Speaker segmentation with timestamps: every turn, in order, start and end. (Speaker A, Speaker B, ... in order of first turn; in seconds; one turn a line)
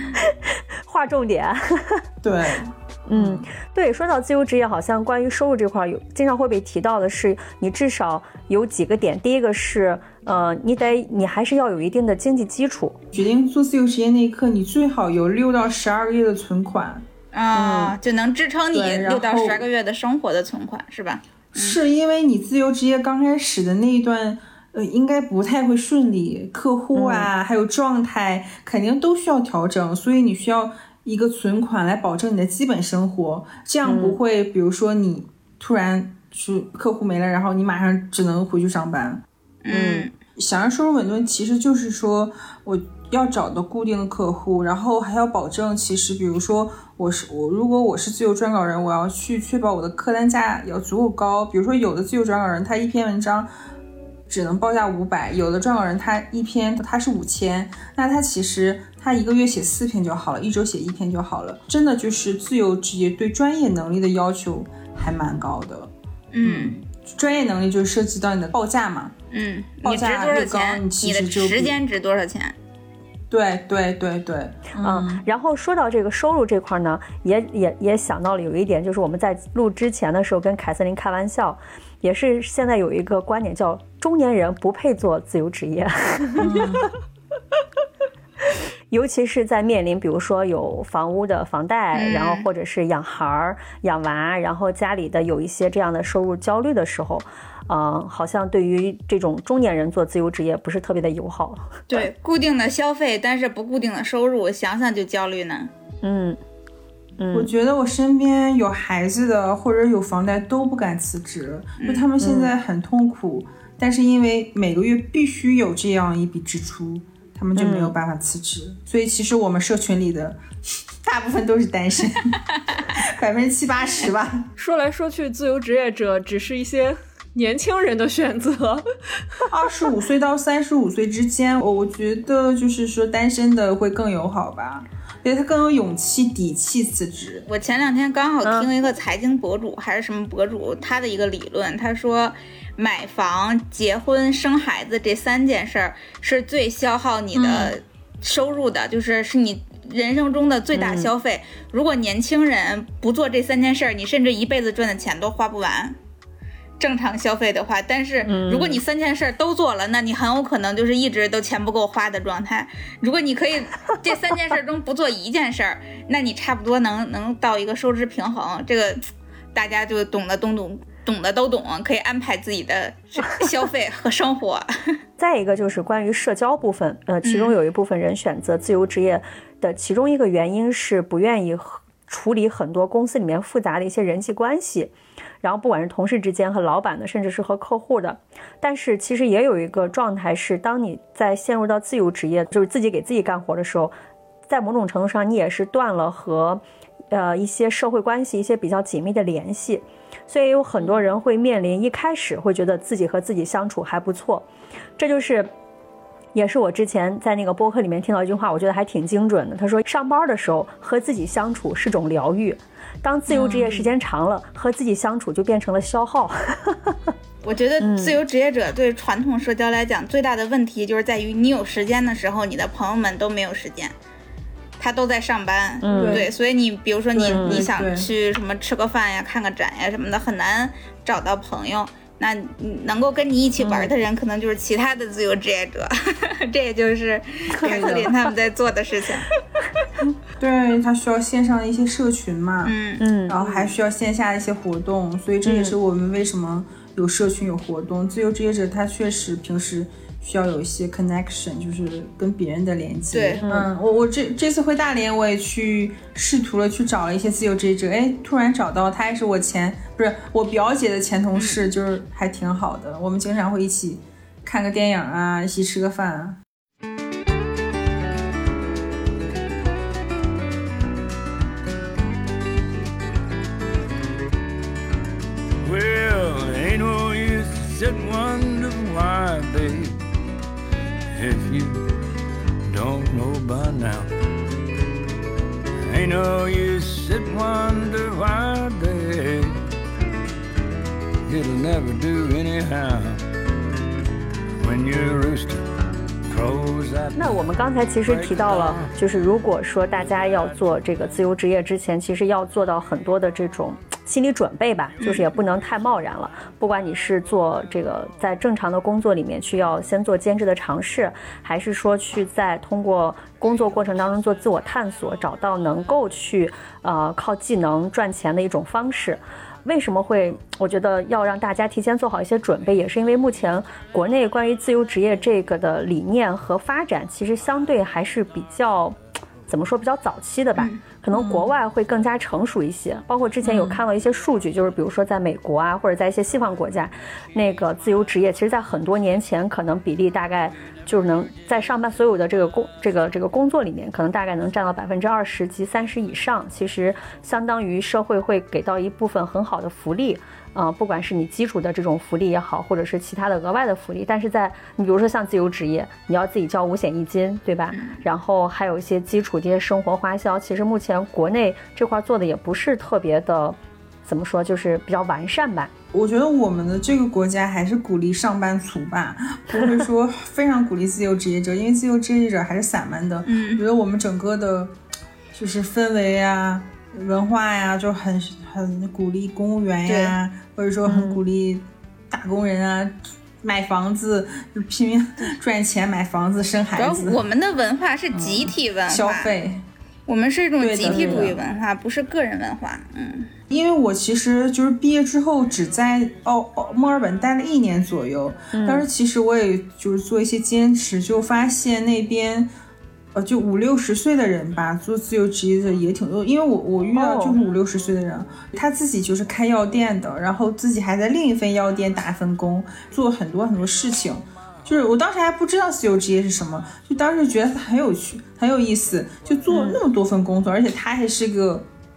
Speaker A: 0.2-2.0
Speaker B: 2.2-3.5
Speaker A: 3.1-13.0
Speaker B: 13.1-17.0
Speaker C: 17.3-21.8
Speaker A: 17.5-17.9
Speaker B: 18.7-19.6
Speaker B: 21.5-39.2
Speaker A: 26.9-27.3
Speaker A: 33.8-34.2
Speaker C: 39.6-40.1
Speaker A: 39.7-40.1
Speaker B: 40.4-53.5
Speaker B: 54.3-65.9
Speaker C: 66.3-66.8
Speaker B: 66.4-69.1
Speaker C: 69.3-72.5
Speaker B: 69.8-71.8
Speaker B: 73.3-75.2
Speaker A: 74.8-86.8
Speaker B: 86.4-86.9
Speaker A: 88.9-102.0
Speaker C: 91.9-92.5
Speaker C: 101.9-105.7
Speaker A: 106.0-106.4
Speaker A: 107.2-107.5
Speaker B: 107.3-120.4
Speaker A: 112.2-112.5
Speaker A: 117.5-118.0
Speaker B: 121.0-122.4
Speaker B: 122.9-124.5
Speaker D: 124.6-128.8
Speaker B: 129.5-137.4
Speaker C: 137.5-155.9
Speaker A: 138.4-138.7
Speaker B: 147.3-147.7
Speaker A: 150.7-151.1
Speaker C: 156.8-169.0
Speaker A: 158.2-158.8
Speaker C: 169.5-174.7
Speaker A: 175.2-193.9
Speaker C: 177.2-177.5
Speaker A: 194.5-204.5
Speaker A: 205.0-205.5
Speaker A: 206.3-217.1
Speaker B: 213.3-213.9
Speaker C: 217.4-223.9
Speaker A: 217.8-218.2
Speaker C: 224.8-239.3
Speaker A: 225.8-226.3
Speaker B: 225.9-226.3
Speaker B: 227.1-228.1
Speaker A: 227.3-227.7
Speaker A: 233.6-233.9
Speaker A: 237.6-238.1
Speaker B: 237.6-238.1
Speaker B: 240.4-242.7
Speaker C: 242.6-243.0
Speaker A: 243.0-243.6
Speaker B: 243.3-266.4
Speaker A: 245.4-245.8
Speaker C: 253.1-253.4
Speaker A: 253.4-253.7
Speaker C: 261.4-261.6
Speaker E: 275.6-279.9
Speaker E: 281.1-281.8
Speaker E: 282.7-284.1
Speaker E: 285.9-289.5
Speaker E: 291.3-293.2
Speaker E: 294.6-295.6
Speaker E: 296.3-297.5
Speaker A: 297.1-365.7
Speaker E: 298.0-298.9
Speaker B: 331.1-331.5
Speaker B: 333.4-333.8
Speaker C: 357.7-358.0
Speaker B: 365.9-374.7
Speaker C: 373.2-373.6
Speaker B: 375.3-387.2
Speaker C: 379.9-380.1
Speaker A: 380.9-381.2
Speaker C: 386.8-389.3
Speaker B: 388.1-389.6
Speaker C: 390.1-393.3
Speaker B: 390.6-391.4
Speaker A: 390.8-391.3
Speaker B: 393.5-402.5
Speaker A: 398.5-398.9
Speaker B: 403.1-421.6
Speaker A: 406.9-407.4
Speaker A: 419.5-419.8